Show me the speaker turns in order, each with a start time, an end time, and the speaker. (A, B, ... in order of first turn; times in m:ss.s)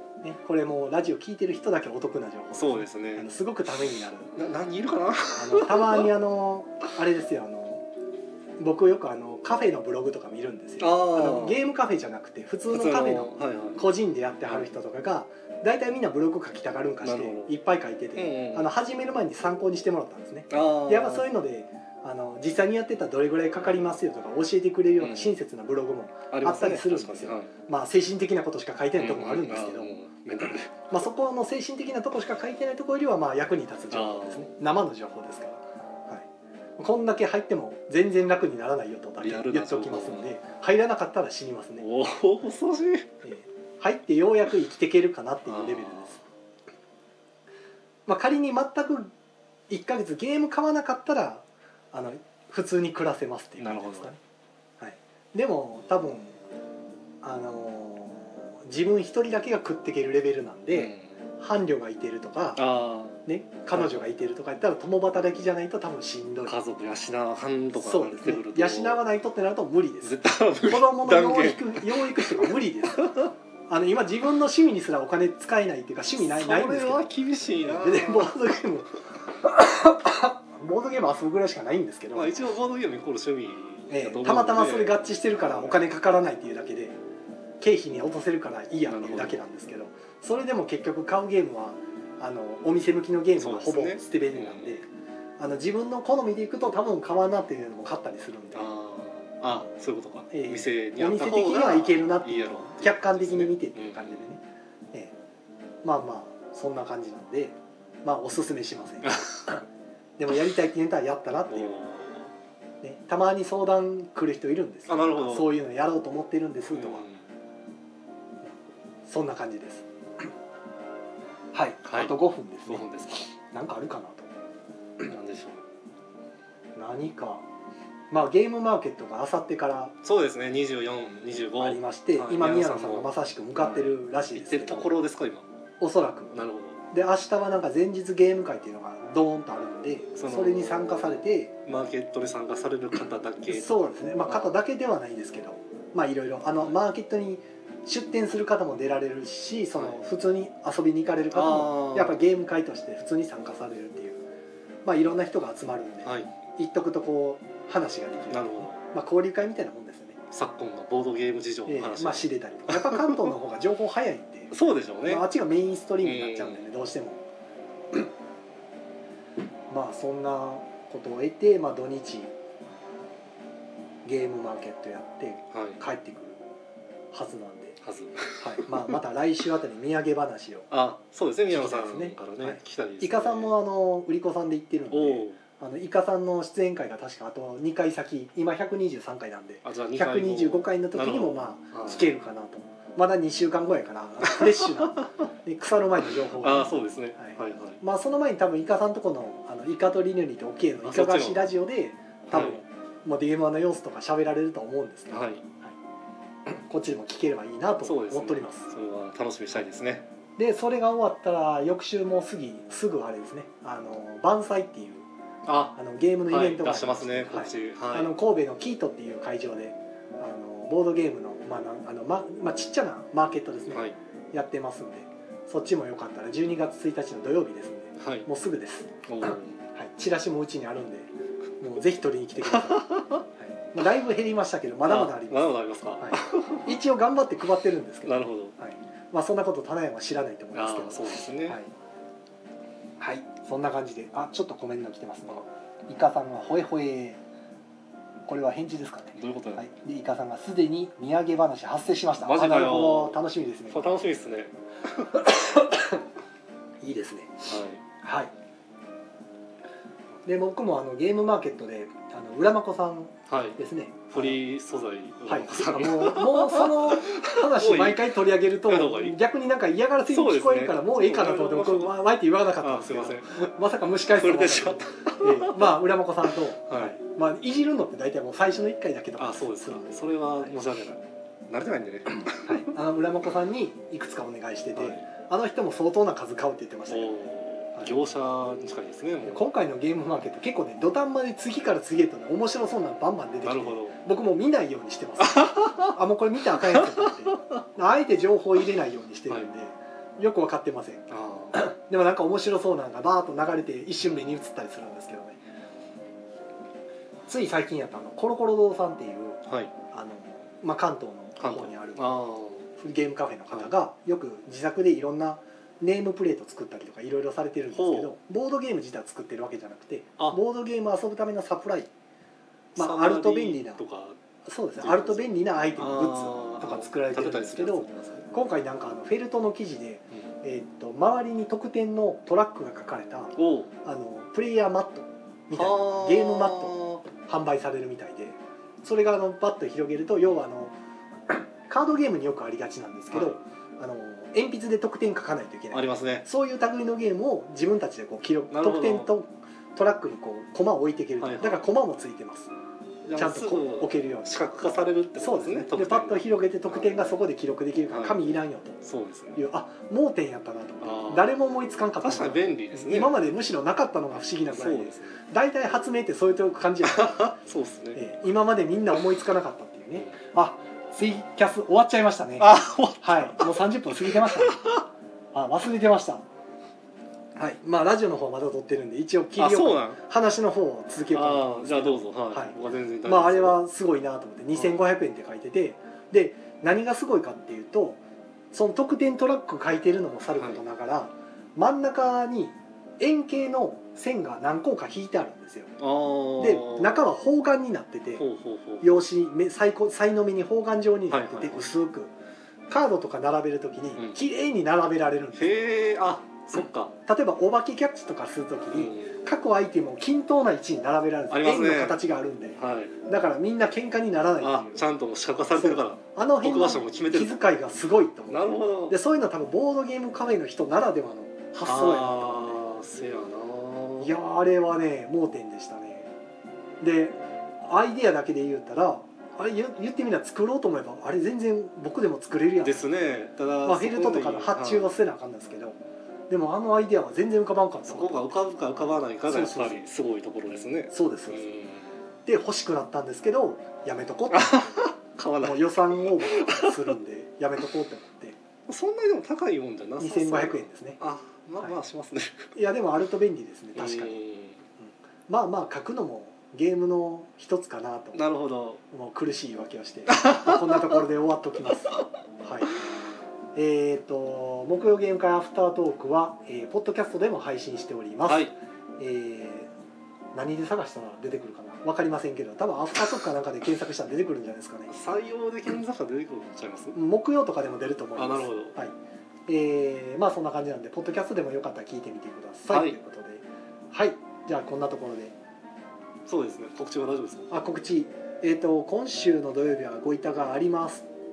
0:00.2-0:04.3 A
0:02.5-0:03.3 B
0:04.3-0:06.1 B
0:05.4-0:07.8 A
0:08.6-0:29.9 A
0:10.8-0:11.6 B
0:12.7-0:13.8 B
0:17.0-0:17.5 B
0:18.2-0:18.7 B
0:20.5-0:21.3 B
0:25.0-0:25.4 B
0:26.3-0:27.5 B
0:29.0-0:30.7 B
0:30.9-0:36.3 A
0:33.9-0:34.5 B
0:36.8-0:41.9 A
0:39.2-0:40.3 B
0:41.8-0:43.1 B
0:43.2-0:46.2 A
0:45.5-0:46.2 B
0:48.1-0:49.1 A
0:49.7-0:54.2 A
0:53.6-0:54.1 B
0:54.8-0:56.4 A
0:57.2-1:02.6 A
1:00.7-1:01.2 B
1:02.6-1:03.2 B
1:03.2-1:06.6 A
1:03.7-1:04.1 B
1:06.5-1:09.0 B
1:07.8-1:17.1 A
1:10.0-1:13.3 B
1:16.2-1:18.4 B
1:17.6-1:22.4 A
1:22.1-1:25.8 B
1:23.9-1:27.0 A
1:27.6-1:34.9 A
1:28.9-1:29.4 B
1:33.4-1:34.8 B
1:35.4-1:38.7 A
1:38.5-1:44.3 B
1:40.3-1:45.1 A
1:45.8-1:49.6 A
1:50.2-1:51.7 A
1:51.5-1:52.3 B
1:52.8-1:57.1 A
1:54.9-1:55.5 B
1:56.7-1:57.2 B
1:59.1-2:00.3 A
2:01.5-2:04.3 A
2:01.8-2:02.2 B
2:02.7-2:03.3 B
2:05.0-2:05.6 B
2:06.8-2:07.5 A
2:08.1-2:10.0 A
2:10.0-2:15.5 B
2:11.6-2:14.9 A
2:15.8-2:16.4 A
2:16.3-2:16.8 B
2:16.9-2:21.6 A
2:20.2-2:20.9 B
2:21.6-2:24.6 B
2:23.5-2:34.2 A
2:29.8-2:30.0 B
2:31.3-2:32.2 B
2:34.8-2:40.2 A
2:36.0-2:36.3 B
2:38.3-2:38.8 B
2:40.3-2:43.4 B
2:41.7-2:44.5 A
2:44.5-2:45.2 B
2:45.0-2:47.2 A
2:46.0-2:46.7 B
2:49.7-2:52.3 A
2:54.0-2:56.4 A
2:55.5-2:55.8 B
2:57.1-2:57.8 A
2:57.8-2:58.9 B
2:58.4-3:00.7 A
3:00.7-3:03.6 B
3:01.5-3:25.7 A
3:04.9-3:05.4 B
3:09.6-3:12.1 B
3:14.3-3:15.0 B
3:16.4-3:17.8 B
3:20.8-3:21.4 B
3:22.3-3:22.6 B
3:25.1-3:25.4 B
3:26.5-3:28.7 A
3:27.8-3:30.1 B
3:30.4-3:35.1 A
3:35.4-3:35.8 B
3:35.7-3:51.1 A
3:36.3-3:38.1 B
3:43.7-3:44.0 B
3:48.0-3:48.3 B
3:49.1-3:49.6 B
3:51.6-4:01.7 A
3:52.4-3:53.2 B
3:54.9-3:56.7 B
3:58.0-3:58.6 B
4:00.5-4:01.6 B
4:03.0-4:07.2 A
4:08.3-4:14.0 A
4:09.2-4:09.6 B
4:12.2-4:14.5 B
4:15.1-4:16.0 A
4:16.8-4:17.5 A
4:17.5-4:17.8 B
4:18.0-4:18.3 A
4:20.2-4:24.4 A
4:23.3-4:23.6 B
4:24.1-4:29.2 B
4:25.3-4:40.5 A
4:30.1-4:32.0 B
4:32.6-4:33.5 B
4:34.1-4:35.8 B
4:36.7-4:37.0 B
4:39.2-4:42.7 B
4:42.4-4:48.0 A
4:44.8-4:45.0 B
4:46.9-4:49.4 B
4:49.3-5:05.4 A
4:53.4-4:54.0 B
4:55.3-4:55.9 B
4:56.6-4:57.0 B
5:01.1-5:01.6 B
5:07.3-5:21.9 A
5:09.5-5:09.7 B
5:11.4-5:12.7 B
5:17.7-5:18.1 B
5:22.8-5:23.8 A
5:22.8-5:24.2 B
5:24.4-5:40.7 A
5:24.8-5:28.3 B
5:33.4-5:33.7 B
5:35.5-5:37.0 B
5:41.3-5:52.5 A
5:43.1-5:43.4 B
5:45.7-5:46.3 B
5:48.5-5:49.1 B
5:51.2-5:51.7 B
5:53.0-5:56.9 B
5:53.2-5:58.8 A
5:57.9-5:58.2 B
5:58.8-5:59.4 B
5:59.4-6:07.4 A
6:00.8-6:01.3 B
6:02.0-6:03.2 B
6:04.5-6:05.2 B
6:06.9-6:08.0 B
6:07.9-6:14.8 A
6:12.4-6:14.8 B
6:15.3-6:16.2 A
6:17.4-6:28.0 A
6:19.4-6:20.0 B
6:21.1-6:23.6 B
6:28.5-6:35.8 A
6:35.8-6:37.0 B
6:36.4-6:38.3 A
6:38.2-6:39.0 B
6:38.8-6:42.1 A
6:41.1-6:41.7 B
6:42.7-6:45.7 A
6:45.4-6:47.0 B
6:47.1-6:54.8 A
6:48.7-6:49.1 B
6:51.3-6:52.0 B
6:52.6-6:53.0 B
6:54.4-6:57.4 B
6:55.5-7:02.7 A
6:58.3-6:59.0 B
7:01.6-7:04.1 B
7:04.0-7:06.1 A
7:06.8-7:12.9 A
7:12.6-7:14.9 B
7:13.6-7:15.8 A
7:16.3-7:18.4 A
7:17.9-7:22.0 B
7:19.3-7:19.8 A
7:20.9-7:21.5 A
7:22.3-7:24.8 A
7:24.3-7:26.9 B
7:25.4-7:28.4 A
7:28.7-7:32.5 B
7:30.0-7:31.0 A
7:32.6-7:34.2 A
7:33.8-7:34.6 B
7:34.8-7:38.2 A
7:38.1-7:38.8 B
7:38.9-7:42.8 A
7:40.1-7:40.9 B
7:43.6-7:49.7 A
7:48.3-7:48.5 B
7:50.3-7:55.0 A
7:54.9-7:57.0 B
7:56.9-7:59.0 A
7:58.2-7:58.8 B
7:59.5-8:05.3 A
8:02.7-8:03.0 B
8:06.3-8:07.5 B
8:07.5-8:11.1 A